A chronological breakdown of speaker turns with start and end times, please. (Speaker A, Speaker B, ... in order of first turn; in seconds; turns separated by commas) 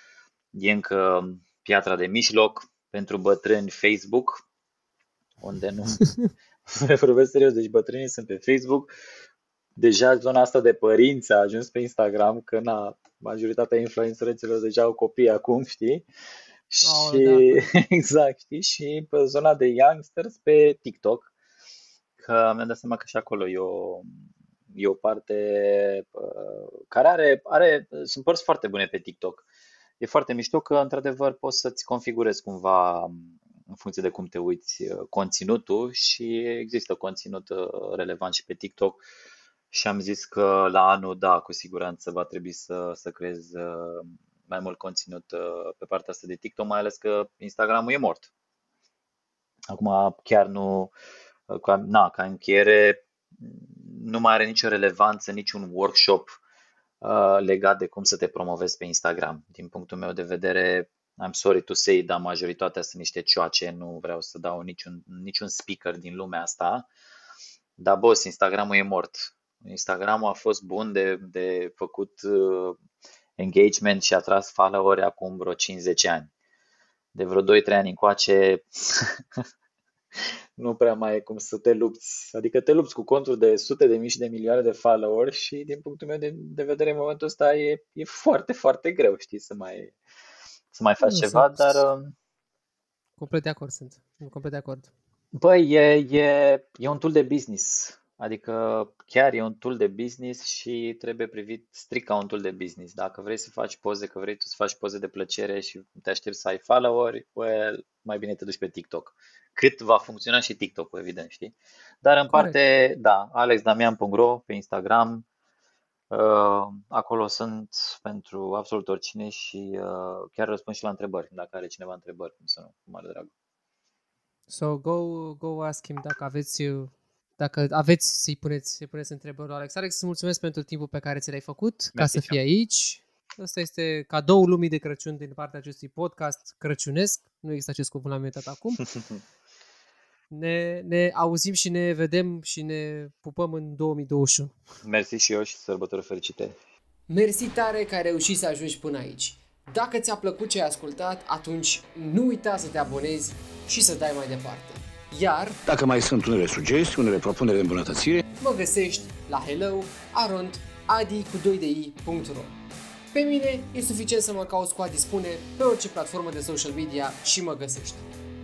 Speaker A: 0.5-4.4, Speaker A: 5.4-6.1, Speaker A: 6.7-8.9, Speaker A: 9.8-16.1, Speaker A: 16.7-21.3, Speaker B: 16.8-17.7, Speaker A: 22.2-24.1, Speaker A: 24.7-29.4, Speaker A: 30.0-39.0, Speaker A: 39.7-48.3, Speaker A: 49.7-50.9, Speaker A: 51.5-56.4, Speaker A: 57.0-66.9, Speaker A: 67.8-72.8, Speaker A: 73.4-76.3, Speaker A: 77.1-79.4, Speaker A: 80.2-89.9, Speaker A: 90.7-92.1, Speaker B: 91.0-91.8, Speaker B: 93.2-94.9, Speaker A: 95.3-115.2, Speaker B: 112.3-112.6, Speaker A: 116.1-123.3, Speaker B: 124.5-138.8, Speaker A: 131.9-132.4, Speaker B: 140.3-144.5, Speaker A: 144.8-146.6, Speaker B: 147.1-155.6, Speaker C: 155.7-158.2, Speaker B: 158.4-162.6, Speaker B: 163.1-168.0